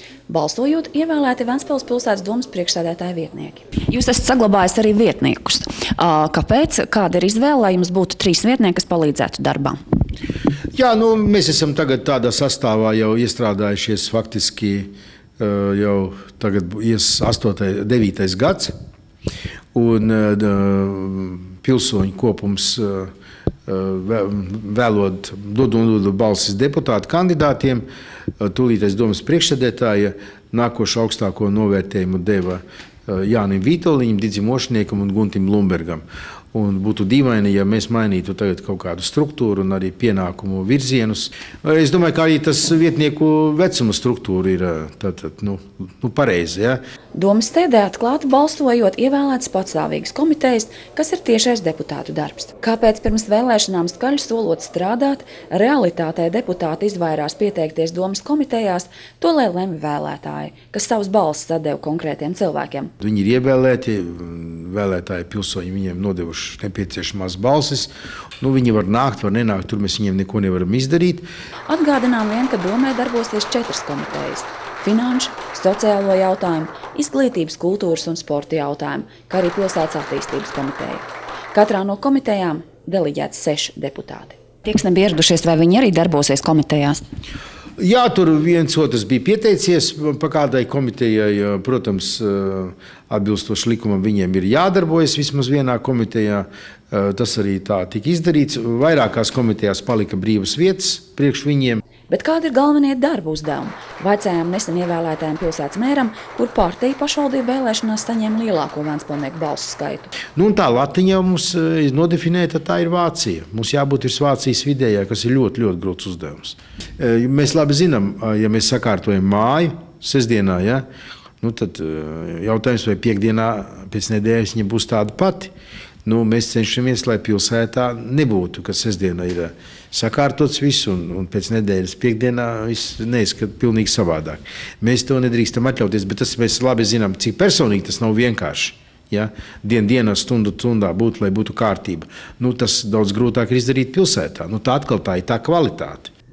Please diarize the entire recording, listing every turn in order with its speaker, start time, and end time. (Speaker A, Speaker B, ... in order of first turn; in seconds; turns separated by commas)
Speaker A: 0.3-9.8, Speaker B: 10.7-18.7, Speaker B: 19.7-23.1, Speaker B: 23.7-27.8, Speaker B: 28.4-46.8, Speaker A: 47.1-62.9, Speaker B: 63.0-71.2, Speaker A: 71.7-87.0, Speaker B: 87.8-101.8, Speaker A: 102.1-110.1, Speaker B: 110.3-120.8, Speaker B: 121.4-125.5, Speaker B: 126.0-146.1